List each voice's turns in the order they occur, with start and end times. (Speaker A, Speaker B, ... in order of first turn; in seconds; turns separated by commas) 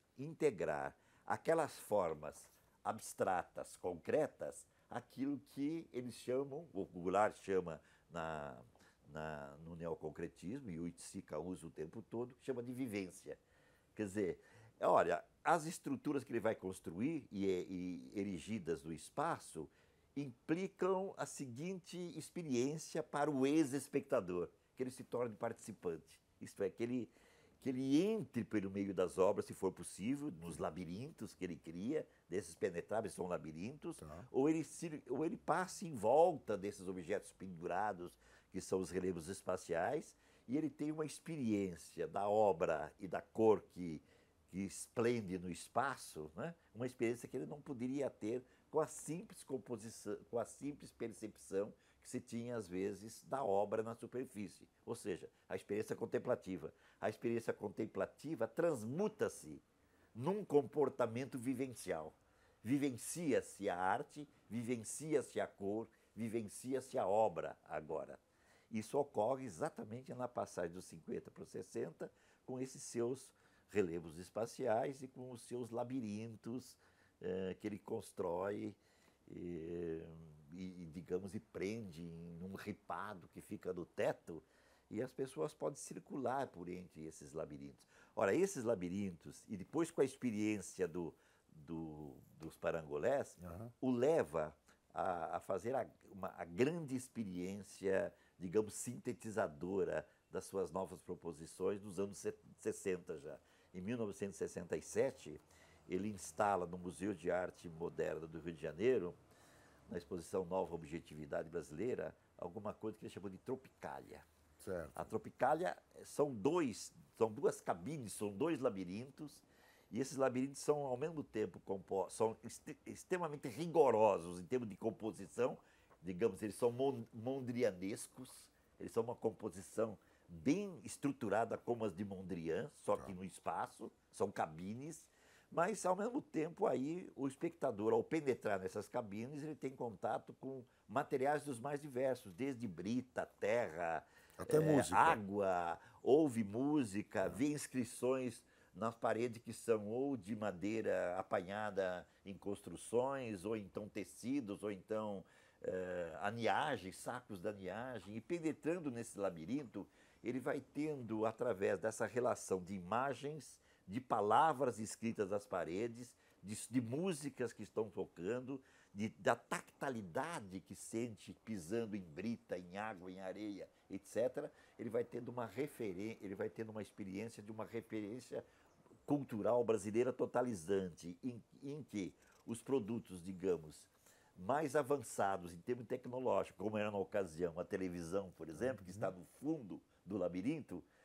Speaker A: 0.2-13.4, Speaker A: 13.9-59.6, Speaker B: 34.0-34.3, Speaker A: 60.1-68.2, Speaker A: 68.7-109.2, Speaker B: 93.4-93.7, Speaker A: 109.9-114.2, Speaker B: 114.6-115.1, Speaker A: 114.9-178.4, Speaker B: 144.4-145.2, Speaker A: 179.1-190.8, Speaker B: 188.5-189.1